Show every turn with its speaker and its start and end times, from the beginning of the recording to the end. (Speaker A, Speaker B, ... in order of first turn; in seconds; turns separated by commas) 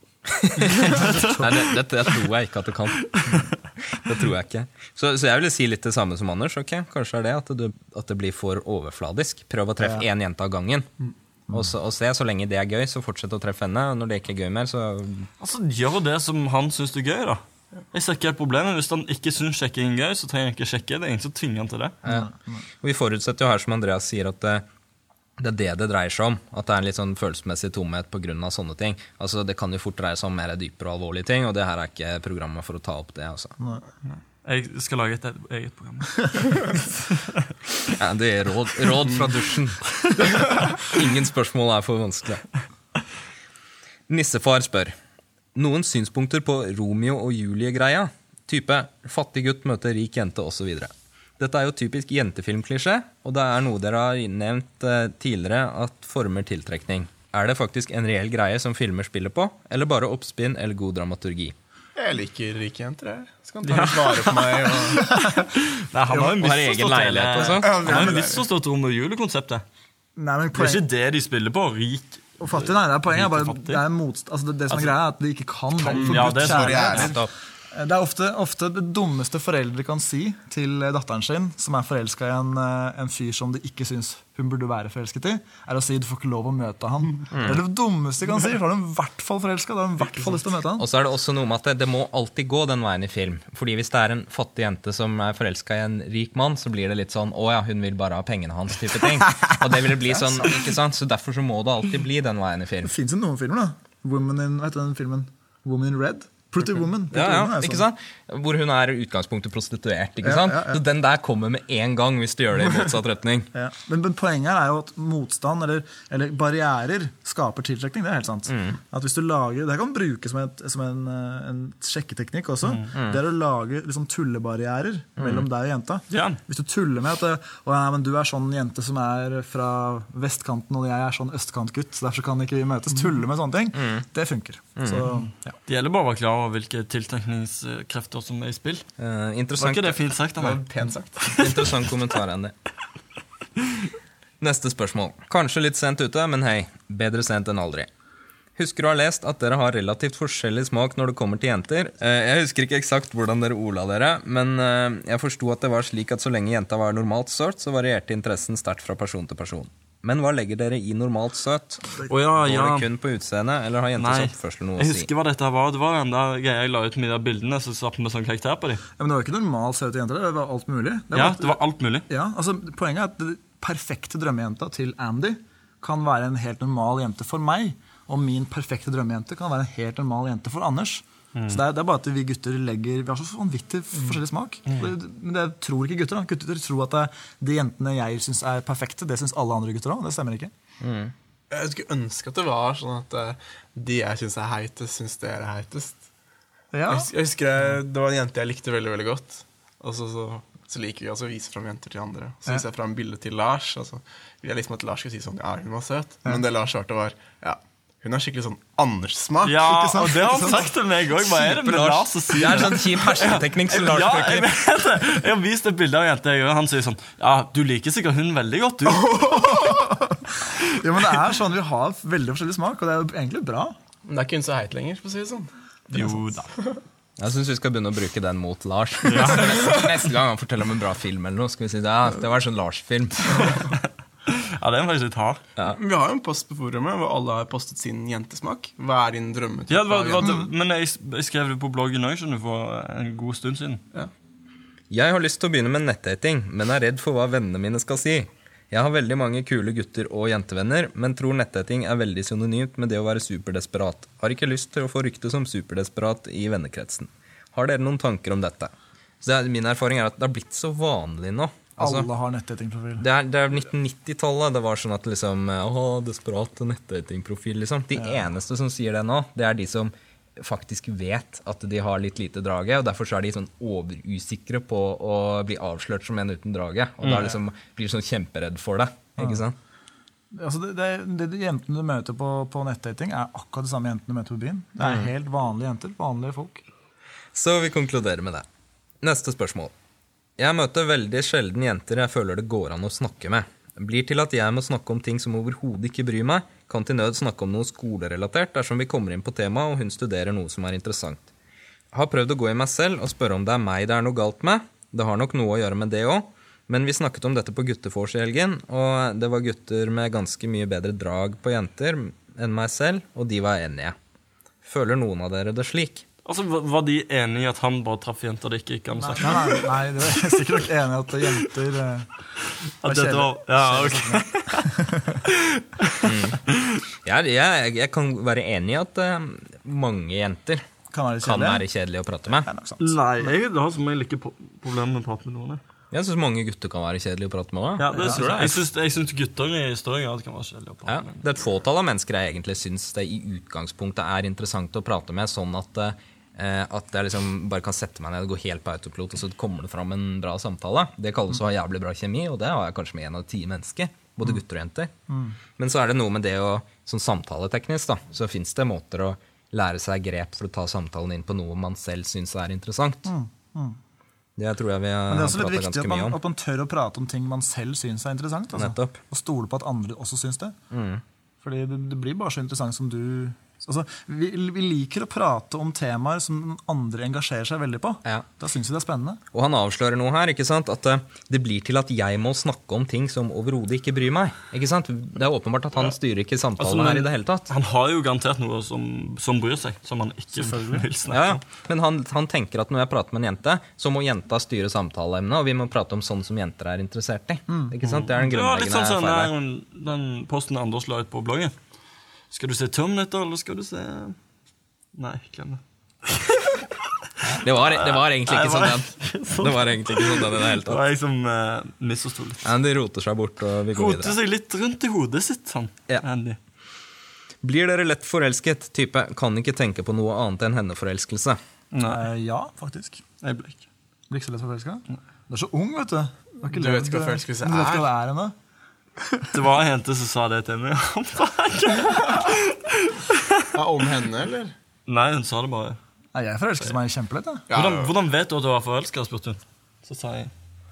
Speaker A: 0.4-10.9, Speaker B: 0.9-1.7, Speaker B: 3.1-3.5, Speaker A: 11.5-15.3, Speaker B: 15.4-21.9, Speaker A: 22.0-22.3, Speaker C: 22.1-22.6, Speaker A: 22.8-24.6, Speaker A: 25.4-33.5, Speaker B: 34.4-36.8, Speaker A: 38.0-42.5, Speaker A: 44.1-44.9, Speaker A: 45.5-61.5, Speaker D: 62.0-65.3, Speaker B: 63.6-69.6, Speaker C: 65.1-65.5, Speaker A: 66.2-67.8, Speaker D: 67.4-68.4, Speaker C: 67.8-68.2, Speaker C: 70.2-70.8, Speaker B: 70.5-73.8, Speaker C: 72.4-77.2, Speaker B: 75.8-77.2, Speaker D: 75.9-77.2, Speaker A: 76.9-77.3, Speaker C: 77.7-90.8, Speaker A: 87.3-87.6, Speaker A: 90.8-102.9, Speaker C: 102.8-107.8, Speaker A: 107.1-113.5, Speaker C: 110.2-110.8, Speaker C: 113.5-135.6, Speaker A: 118.5-118.8, Speaker A: 122.9-123.2, Speaker A: 125.2-125.5, Speaker B: 126.1-126.4, Speaker A: 133.7-134.0, Speaker A: 134.8-135.1, Speaker B: 135.7-138.8, Speaker A: 139.0-140.0, Speaker B: 139.6-140.6, Speaker D: 140.4-141.6, Speaker B: 141.3-141.7, Speaker A: 141.4-142.5, Speaker A: 144.4-147.9, Speaker A: 148.6-165.1, Speaker B: 162.1-162.9, Speaker B: 164.0-168.8, Speaker C: 169.0-190.5, Speaker B: 171.1-172.1, Speaker B: 181.3-181.6, Speaker A: 190.8-191.1, Speaker D: 191.5-196.0, Speaker C: 196.7-197.1, Speaker D: 196.9-212.7, Speaker B: 209.4-219.6, Speaker C: 209.6-210.7, Speaker A: 212.4-214.5, Speaker D: 219.0-219.9, Speaker C: 219.5-223.8, Speaker D: 224.1-226.8, Speaker B: 225.9-226.5, Speaker A: 227.2-233.5, Speaker B: 229.1-229.5, Speaker D: 229.4-229.9, Speaker B: 233.4-233.7, Speaker B: 234.3-235.4, Speaker D: 235.7-240.4, Speaker B: 239.7-243.8, Speaker A: 244.9-262.1, Speaker C: 261.8-263.0, Speaker A: 263.0-279.5, Speaker B: 277.0-277.3, Speaker C: 279.2-279.4, Speaker C: 280.3-286.6, Speaker A: 284.8-285.1, Speaker A: 287.3-288.4, Speaker A: 289.0-289.7, Speaker A: 290.4-301.3, Speaker A: 301.9-313.9, Speaker A: 314.6-316.0, Speaker B: 316.2-319.7, Speaker C: 319.0-322.1, Speaker B: 322.8-326.8, Speaker C: 322.8-325.2, Speaker A: 326.0-326.4, Speaker A: 327.0-330.6, Speaker C: 330.9-331.6, Speaker A: 331.2-332.5, Speaker C: 332.4-333.3, Speaker B: 332.8-335.6, Speaker A: 335.9-338.6, Speaker B: 337.8-341.1, Speaker C: 337.9-338.5, Speaker A: 340.9-354.9, Speaker C: 355.1-355.4, Speaker A: 355.6-363.1, Speaker C: 363.0-363.8, Speaker A: 364.4-366.2, Speaker C: 365.1-370.5, Speaker A: 368.5-369.0, Speaker A: 370.7-371.0, Speaker C: 371.4-379.2, Speaker A: 379.3-387.5, Speaker B: 386.6-391.4, Speaker C: 390.4-390.9, Speaker A: 391.1-399.3, Speaker C: 397.5-397.7, Speaker B: 397.8-401.5, Speaker B: 402.3-404.1, Speaker B: 404.9-406.7, Speaker B: 407.2-412.5, Speaker A: 407.3-410.8, Speaker A: 412.4-414.1, Speaker B: 413.8-416.4, Speaker A: 417.4-421.4, Speaker B: 421.7-422.0, Speaker C: 421.8-423.0, Speaker B: 423.2-423.6, Speaker C: 424.1-428.3, Speaker D: 426.5-427.9, Speaker B: 429.3-433.5, Speaker D: 433.5-434.5, Speaker B: 434.9-435.8, Speaker C: 436.1-437.4, Speaker D: 437.5-437.9, Speaker B: 437.5-440.3